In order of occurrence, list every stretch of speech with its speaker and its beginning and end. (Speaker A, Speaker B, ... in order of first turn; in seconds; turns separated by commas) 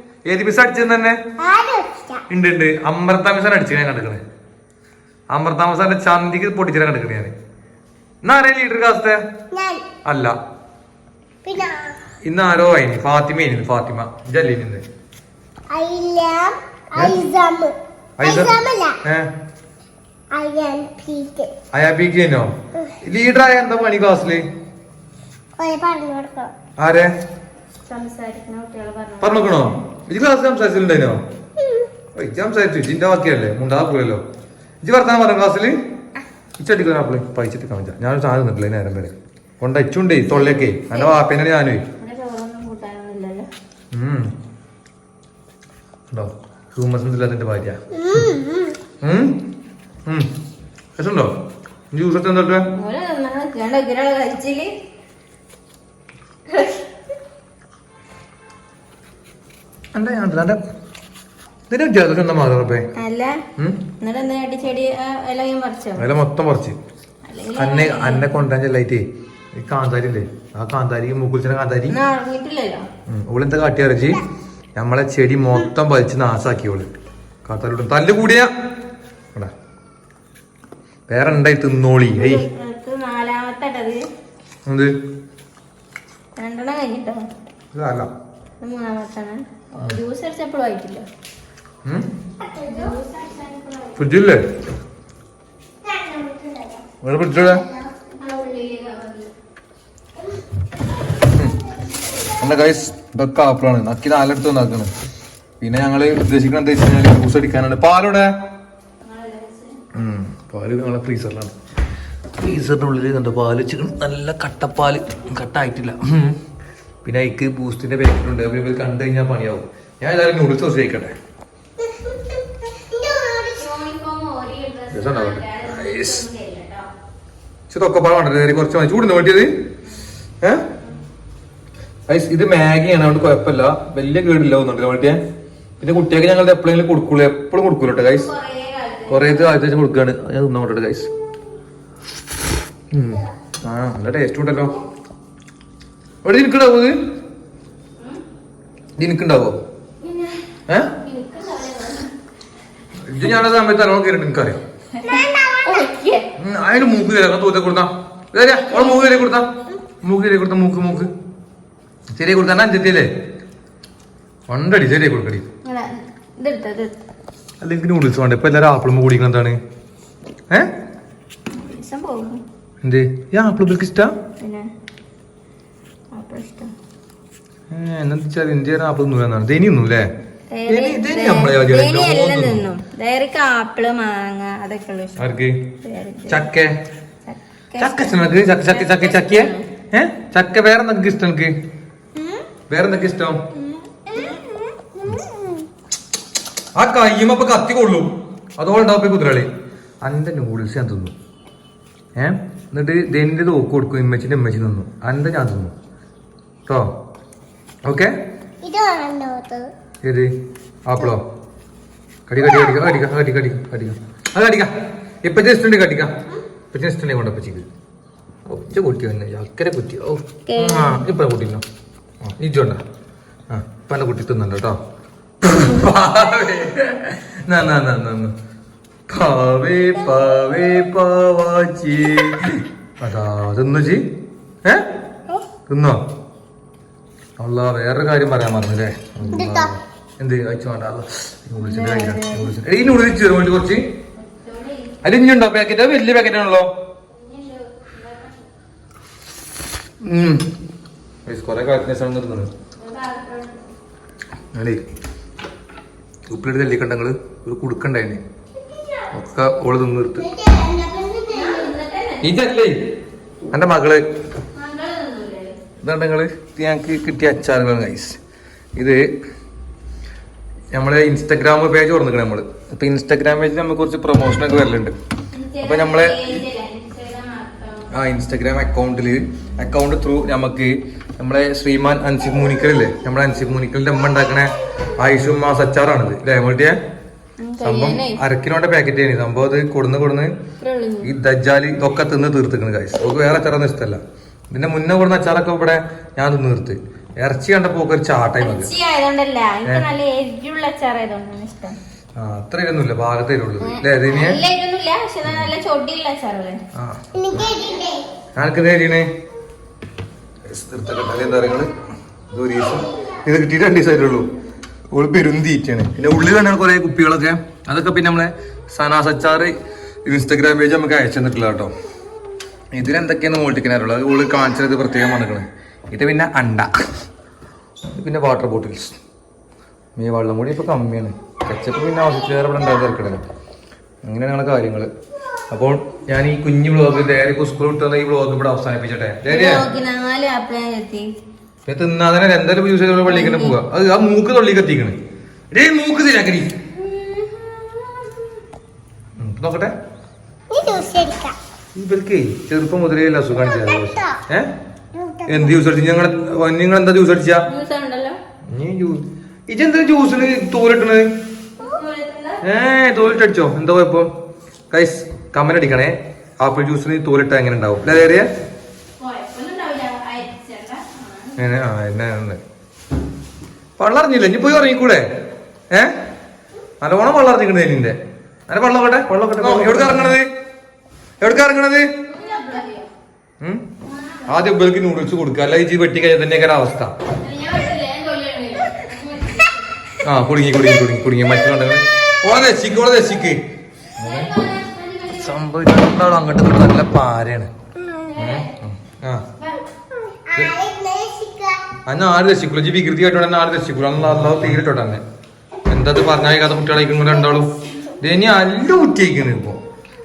Speaker A: 0.3-1.2, Speaker B: 1.4-2.2, Speaker A: 2.3-4.2, Speaker A: 5.3-7.3, Speaker A: 8.2-9.2, Speaker B: 9.5-9.8, Speaker A: 10.1-10.3, Speaker B: 11.4-12.0, Speaker A: 12.2-14.8, Speaker B: 15.7-19.0, Speaker A: 18.2-19.3, Speaker B: 20.3-21.5, Speaker A: 21.7-22.5, Speaker A: 23.0-24.4, Speaker B: 25.6-26.5, Speaker A: 26.8-27.1, Speaker C: 27.9-29.7, Speaker A: 29.2-31.2, Speaker B: 31.6-31.9, Speaker A: 32.1-34.2, Speaker A: 34.8-35.8, Speaker A: 36.6-41.9, Speaker C: 42.0-43.5, Speaker A: 43.9-44.3, Speaker A: 46.1-48.3, Speaker B: 48.0-48.8, Speaker A: 49.0-49.4, Speaker A: 51.0-51.3, Speaker A: 51.9-52.7, Speaker C: 52.7-54.7, Speaker C: 56.5-56.8, Speaker A: 59.9-60.6, Speaker A: 61.7-62.9, Speaker C: 63.0-63.4, Speaker A: 63.6-63.9, Speaker C: 64.0-66.1, Speaker A: 66.0-66.8, Speaker C: 67.2-68.4, Speaker A: 67.6-72.0, Speaker C: 71.9-72.9, Speaker A: 73.1-74.2, Speaker A: 74.8-76.9, Speaker A: 77.5-78.5, Speaker A: 81.1-82.5, Speaker C: 82.1-84.0, Speaker A: 84.7-84.9, Speaker C: 86.4-87.3, Speaker A: 87.7-88.1, Speaker C: 88.6-91.1, Speaker B: 92.4-93.0, Speaker C: 92.7-94.1, Speaker A: 94.0-94.4, Speaker B: 95.8-96.9, Speaker A: 97.0-97.7, Speaker B: 97.4-98.1, Speaker C: 98.2-99.3, Speaker A: 102.4-104.9, Speaker A: 105.6-108.3, Speaker C: 109.0-109.8, Speaker A: 109.9-111.5, Speaker A: 112.4-116.4, Speaker A: 117.0-121.1, Speaker B: 122.7-123.7, Speaker C: 123.6-126.9, Speaker A: 124.9-126.2, Speaker A: 127.7-129.5, Speaker A: 132.1-135.2, Speaker A: 135.8-138.3, Speaker C: 138.1-139.6, Speaker A: 139.1-141.1, Speaker A: 142.9-144.8, Speaker A: 146.2-146.9, Speaker A: 149.0-149.6, Speaker C: 150.0-150.4, Speaker A: 150.7-150.9, Speaker C: 151.0-152.1, Speaker A: 153.1-154.6, Speaker C: 155.0-156.3, Speaker B: 155.0-155.9, Speaker A: 156.4-159.5, Speaker A: 160.0-161.1, Speaker A: 162.1-163.1, Speaker A: 164.5-165.5, Speaker C: 165.7-166.9, Speaker A: 167.6-169.6, Speaker C: 171.5-172.4, Speaker A: 172.8-174.1, Speaker C: 174.4-174.7, Speaker C: 176.1-176.7, Speaker A: 177.7-180.1, Speaker C: 180.5-185.3, Speaker A: 180.7-182.7, Speaker A: 185.2-185.7, Speaker C: 185.8-186.5, Speaker A: 186.3-186.8, Speaker C: 187.3-188.0, Speaker A: 187.8-191.6, Speaker C: 188.7-189.7, Speaker A: 192.7-193.4, Speaker B: 193.9-195.6, Speaker A: 196.8-199.5, Speaker A: 200.0-201.1, Speaker A: 202.2-205.7, Speaker A: 207.8-208.1, Speaker B: 208.6-209.7, Speaker A: 210.0-210.3, Speaker A: 210.9-211.2, Speaker A: 212.3-214.7, Speaker B: 212.4-212.9, Speaker A: 215.2-216.2, Speaker A: 216.7-217.7, Speaker A: 218.5-221.6, Speaker C: 220.5-221.0, Speaker A: 222.2-222.8, Speaker A: 223.5-224.8, Speaker A: 225.4-228.3, Speaker A: 229.1-234.1, Speaker A: 235.7-236.0, Speaker A: 237.4-243.8, Speaker B: 239.3-239.7, Speaker C: 241.6-242.5, Speaker C: 244.2-244.9, Speaker A: 245.0-246.7, Speaker C: 247.1-248.5, Speaker A: 250.0-250.5, Speaker A: 251.3-252.5, Speaker C: 252.8-253.6, Speaker A: 254.5-254.9, Speaker A: 256.3-258.2, Speaker A: 259.1-260.3, Speaker B: 260.2-261.7, Speaker C: 261.3-262.4, Speaker A: 262.2-262.8, Speaker A: 263.5-264.0, Speaker C: 264.6-265.6, Speaker A: 265.8-268.2, Speaker A: 268.8-269.1, Speaker A: 270.7-274.9, Speaker C: 275.3-277.9, Speaker A: 275.6-276.4, Speaker A: 277.9-286.8, Speaker C: 287.4-288.2, Speaker A: 287.6-290.3, Speaker C: 290.6-291.1, Speaker A: 291.0-294.0, Speaker A: 294.5-298.7, Speaker C: 298.4-301.8, Speaker A: 302.2-304.4, Speaker C: 303.6-306.6, Speaker A: 305.3-305.5, Speaker A: 306.8-307.1, Speaker B: 307.1-308.0, Speaker A: 308.4-309.1, Speaker A: 310.5-311.7, Speaker A: 312.3-314.3, Speaker A: 314.9-319.5, Speaker A: 320.1-321.7, Speaker A: 322.7-326.7, Speaker A: 327.9-329.0, Speaker A: 330.0-333.2, Speaker A: 334.0-334.9, Speaker A: 335.5-339.7, Speaker C: 339.3-341.1, Speaker A: 341.7-345.0, Speaker C: 343.1-343.6, Speaker A: 345.5-346.6, Speaker B: 346.9-348.1, Speaker A: 349.2-349.7, Speaker B: 350.5-351.4, Speaker A: 351.8-354.5, Speaker B: 353.4-354.2, Speaker B: 354.9-355.6, Speaker A: 355.3-357.5, Speaker C: 357.5-358.2, Speaker A: 358.5-361.1, Speaker C: 361.6-362.4, Speaker A: 362.4-364.1, Speaker A: 364.7-368.3, Speaker C: 369.0-371.4, Speaker A: 371.4-372.4, Speaker A: 373.8-375.1, Speaker A: 376.8-378.0, Speaker A: 378.5-380.3, Speaker C: 379.4-380.1, Speaker A: 381.2-381.9, Speaker C: 382.1-382.9, Speaker C: 383.9-384.3, Speaker A: 384.3-386.9, Speaker C: 387.2-389.7, Speaker A: 390.0-393.4, Speaker A: 394.0-394.4, Speaker C: 394.0-395.5, Speaker A: 395.1-397.5, Speaker B: 397.8-398.2, Speaker A: 398.2-399.3, Speaker B: 399.9-401.6, Speaker A: 401.9-405.0, Speaker A: 405.7-409.6